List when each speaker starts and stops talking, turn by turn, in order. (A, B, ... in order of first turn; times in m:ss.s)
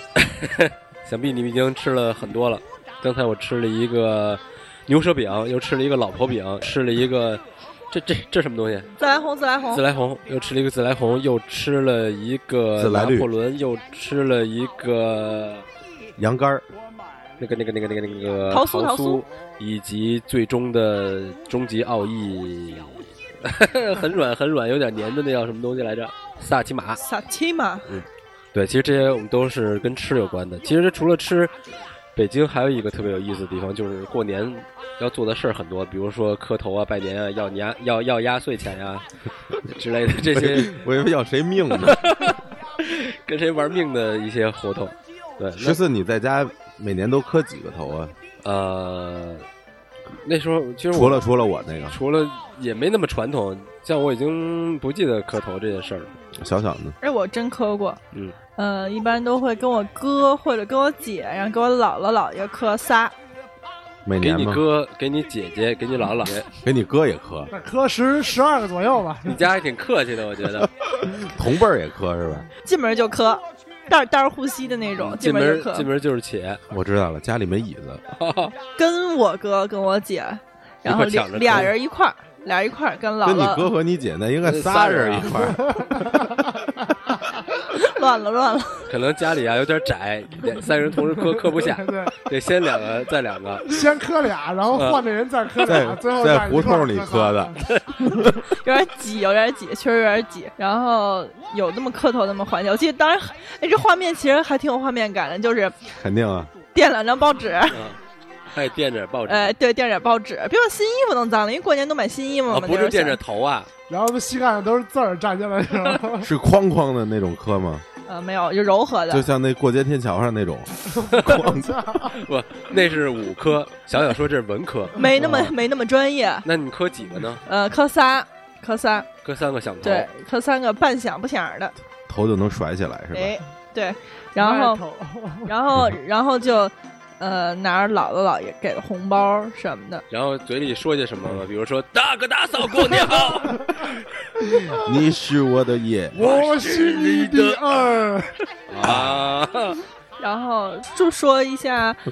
0:00.2-0:08.9 A
0:09.0-0:09.8 B
0:09.7-0:15.6 A
0:12.8-0:13.3 C
0:16.2-0:16.7 C
0:17.4-0:27.0 A
0:18.5-0:19.3 B
0:27.0-0:27.9 B
0:27.9-0:31.5 A
0:32.2-0:39.0 A
0:39.6-0:40.7 A
0:40.3-0:42.0 C
0:41.8-0:45.8 A
0:45.6-0:48.2 C
0:48.4-0:49.5 A
0:50.2-0:51.2 A
0:50.9-0:52.0 C
0:51.9-0:56.1 A
0:56.4-0:57.0 C
0:57.0-0:58.0 B
0:58.6-1:03.1 B
1:04.0-1:04.6 C
1:04.2-1:06.5 A
1:06.6-1:07.5 C
1:07.5-1:09.4 D
1:09.2-1:10.7 A
1:10.6-1:12.5 C
1:12.6-1:15.9 B
1:15.0-1:16.6 A
1:16.7-1:18.0 C
1:18.2-1:18.5 A
1:18.8-1:23.7 B
1:20.8-1:21.7 A
1:23.2-1:25.8 C
1:24.4-1:25.5 A
1:27.6-1:28.9 B
1:28.9-1:33.7 A
1:31.7-1:32.2 D
1:33.7-1:37.6 D
1:34.7-1:35.1 A
1:35.6-1:38.4 C
1:38.5-1:45.9 B
1:46.0-1:46.5 C
1:46.7-1:47.8 B
1:47.7-1:48.0 A
1:48.5-1:49.6 A
1:49.3-1:53.2 B
1:52.5-1:53.7 A
1:53.9-1:56.3 D
1:56.2-1:57.8 C
1:58.1-1:59.3 B
1:59.1-2:01.8 C
2:00.9-2:02.2 D
2:02.0-2:05.5 A
2:05.0-2:06.5 B
2:06.4-2:07.4 A
2:07.5-2:09.1 B
2:09.2-2:10.1 A
2:09.8-2:11.7 B
2:12.1-2:13.4 C
2:13.1-2:14.8 B
2:14.4-2:15.6 D
2:15.5-2:20.0 B
2:20.1-2:24.4 A
2:24.7-2:26.3 C
2:26.2-2:28.4 D
2:26.2-2:27.8 A
2:28.7-2:29.8 A
2:28.8-2:29.4 C
2:30.2-2:32.0 B